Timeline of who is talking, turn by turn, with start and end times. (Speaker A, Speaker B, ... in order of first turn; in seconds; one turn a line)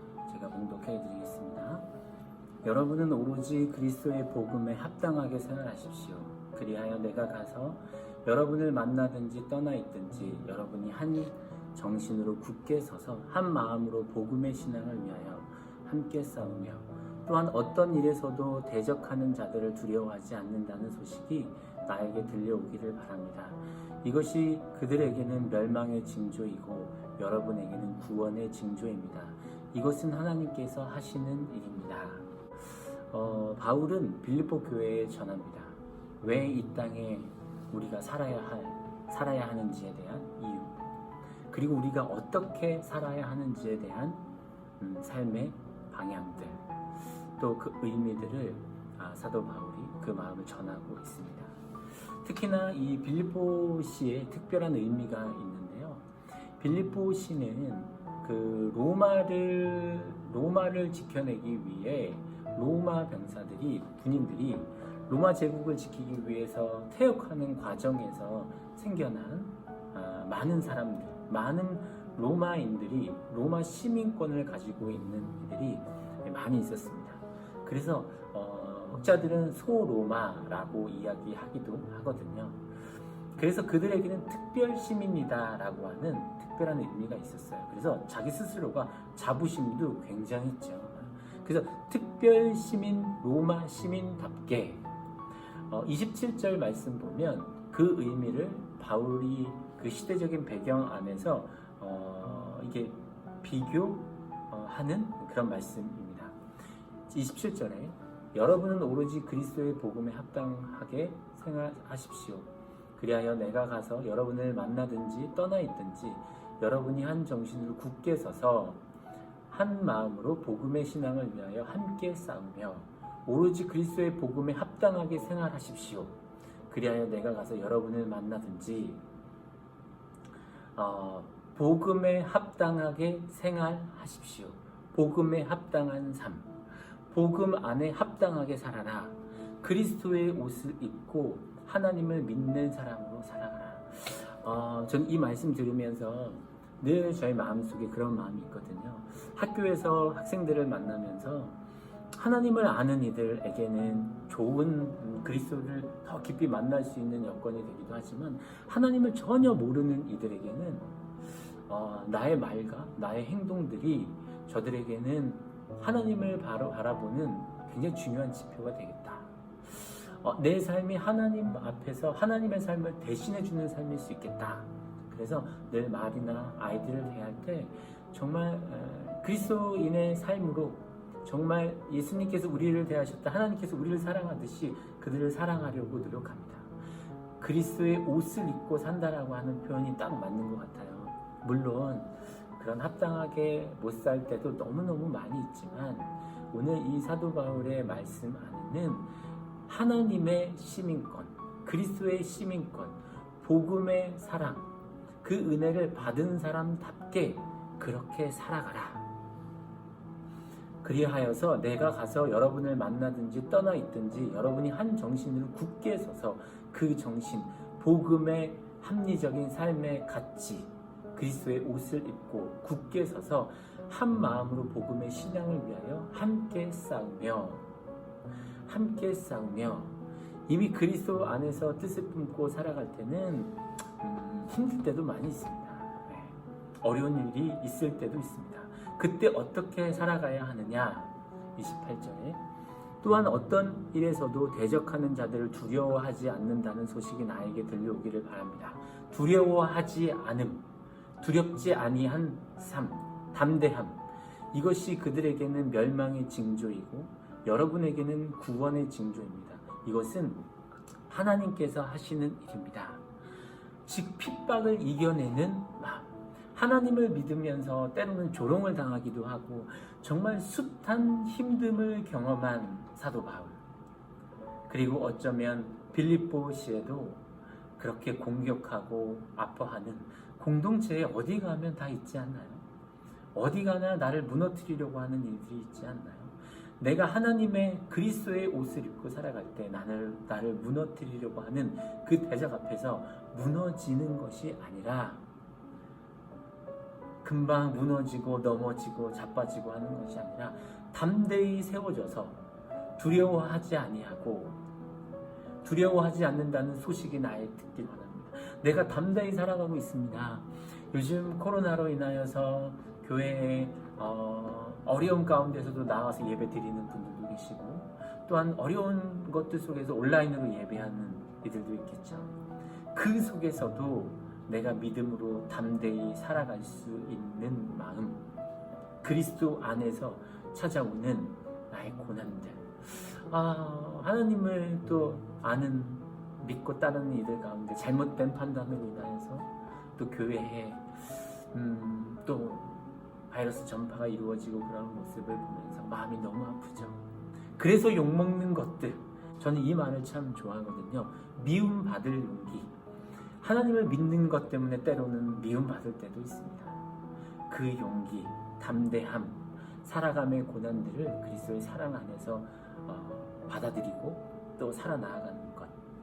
Speaker A: 0.3-1.9
Speaker A: 2.6-40.9
Speaker A: 41.5-44.2
Speaker A: 44.8-46.7
Speaker A: 47.4-51.6
Speaker A: 52.1-56.1
Speaker A: 56.6-82.7
Speaker A: 83.3-94.9
Speaker A: 95.7-106.4
Speaker A: 107.1-118.8
Speaker A: 119.5-129.0
Speaker A: 130.8-136.6
Speaker A: 137.1-151.6
Speaker A: 152.1-160.9
Speaker A: 161.7-186.8
Speaker A: 187.4-199.1
Speaker A: 199.7-204.7
Speaker A: 205.2-209.1
Speaker A: 210.8-227.7
Speaker A: 228.7-242.4
Speaker A: 243.0-250.7
Speaker A: 251.2-260.5
Speaker A: 261.1-263.1
Speaker A: 263.9-273.6
Speaker A: 274.7-277.3
Speaker A: 277.8-282.6
Speaker A: 283.3-295.3
Speaker A: 297.2-302.4
Speaker A: 303.0-304.6
Speaker A: 305.6-322.4
Speaker A: 322.9-328.3
Speaker A: 329.0-347.1
Speaker A: 347.6-352.7
Speaker A: 353.4-356.8
Speaker A: 357.5-365.8